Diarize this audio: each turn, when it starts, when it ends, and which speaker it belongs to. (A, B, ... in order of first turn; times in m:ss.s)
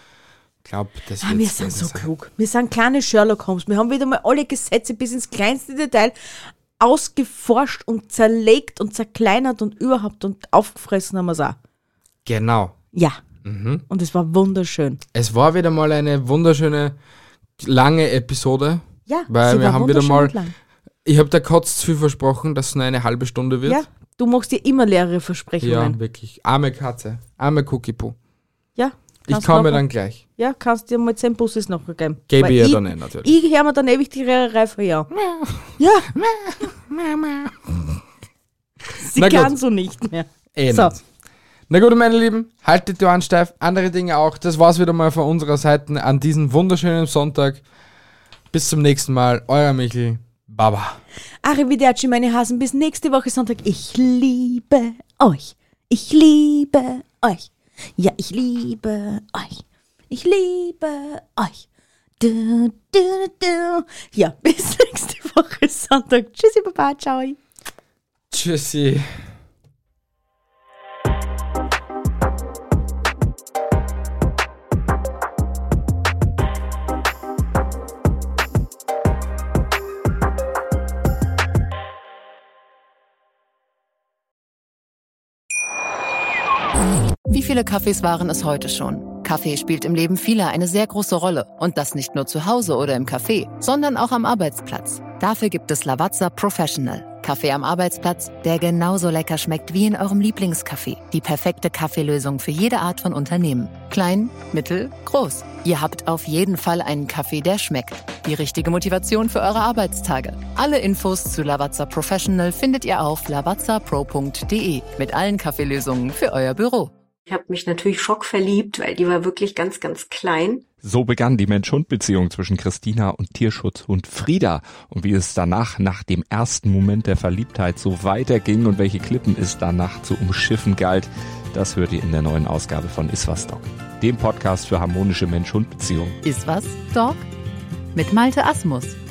0:00.6-0:02.1 A
0:01.2-0:06.1 B
0:06.8-0:11.6 B
0:12.2-0:12.8 A
0:13.4-0:13.8 A
0:13.9-0:15.0 B
0:15.1-0:17.0 A
0:17.6-0:20.3 A
0:19.1-0:20.5 B
0:21.0-0:23.8 A
0:23.6-0:26.0 B
0:25.6-0:28.2 A
0:28.8-0:29.8 B
0:29.3-0:30.2 A
0:30.4-0:35.1 B
0:32.3-0:33.3 A
0:35.1-0:38.0 A
0:35.8-0:36.1 B
0:39.0-0:40.9 B
0:39.1-0:39.5 A
0:40.5-0:41.0 A
0:41.7-0:47.6 A
0:48.5-0:51.0 A
0:51.4-1:01.6 B
1:02.2-1:07.4 B
1:08.3-1:09.1 A
1:27.3-1:56.9 C
1:57.3-2:00.6 D
2:00.8-2:16.2 E
2:16.2-2:17.2 C
2:17.9-2:19.0 C